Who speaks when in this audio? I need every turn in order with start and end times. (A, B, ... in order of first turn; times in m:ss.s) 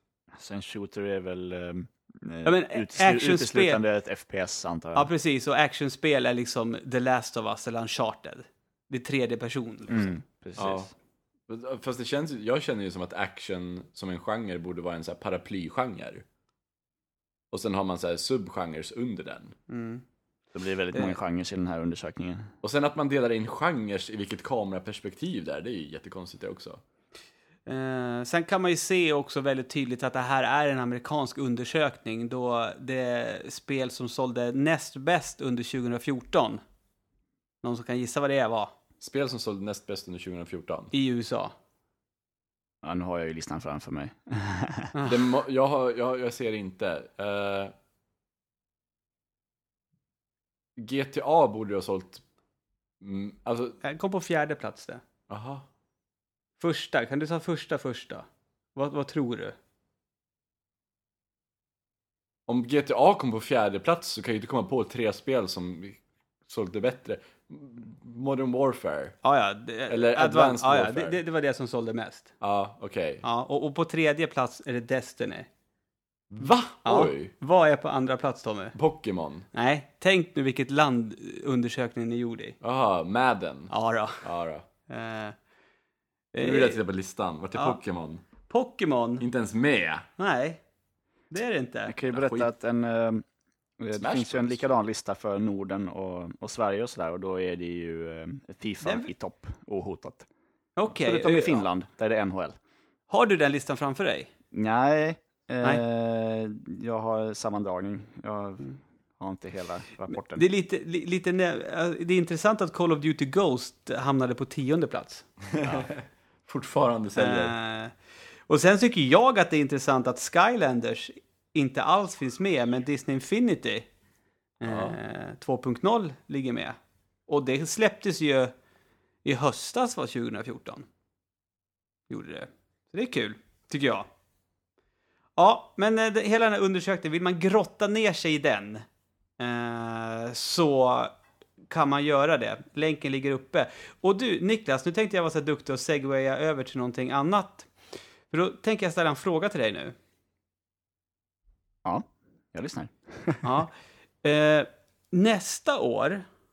0:00.4-0:05.1 A
0:02.4-0:03.8 B
0:04.9-0:10.1 B
0:09.9-0:10.9 A
0:10.6-0:10.9 C
0:11.5-0:16.2 C
0:17.5-0:19.5 C
0:19.7-0:20.0 B
0:20.5-0:22.5 A
0:22.6-0:26.8 C
0:27.6-0:36.6 B
0:37.6-0:38.7 B
0:39.0-0:40.9 C
0:40.9-0:41.5 B
0:42.8-0:44.9 A
0:44.9-0:45.2 B
0:45.0-0:47.7 C
0:50.8-0:52.2 C
0:53.0-0:53.8 C
0:53.8-0:55.0 B
0:55.3-0:55.6 C
0:56.6-0:59.5 B
1:02.5-1:09.2 C
1:09.2-1:12.3 B
1:09.9-1:11.2 C
1:12.4-1:13.2 C
1:13.2-1:15.5 B
1:16.3-1:17.3 C
1:16.8-1:18.7 B
1:18.7-1:19.5 C
1:19.5-1:22.6 B
1:22.6-1:24.6 C
1:23.7-1:24.2 B
1:24.9-1:25.4 B
1:26.3-1:26.8 B
1:26.4-1:28.2 C
1:28.5-1:29.2 B
1:29.2-1:30.1 C
1:30.2-1:30.6 B
1:31.3-1:31.9 B
1:31.9-1:33.2 A
1:32.1-1:32.5 C
1:33.8-1:40.3 A
1:34.0-1:34.6 C
1:38.8-1:39.1 B
1:40.8-1:41.6 B
1:41.0-1:42.6 A
1:43.1-1:44.3 B
1:44.5-1:50.4 A
1:50.1-1:55.2 B
1:55.5-1:57.5 C
1:57.2-1:57.9 B
1:58.5-2:03.9 B
2:04.6-2:06.8 B
2:04.6-2:05.0 C
2:07.3-2:08.5 B
2:09.2-2:10.9 B
2:12.1-2:14.1 B
2:15.4-2:18.8 B
2:19.4-2:21.1 B
2:21.7-2:27.7 B
2:28.3-2:29.9 B
2:31.8-2:33.4 A
2:33.4-2:36.2 B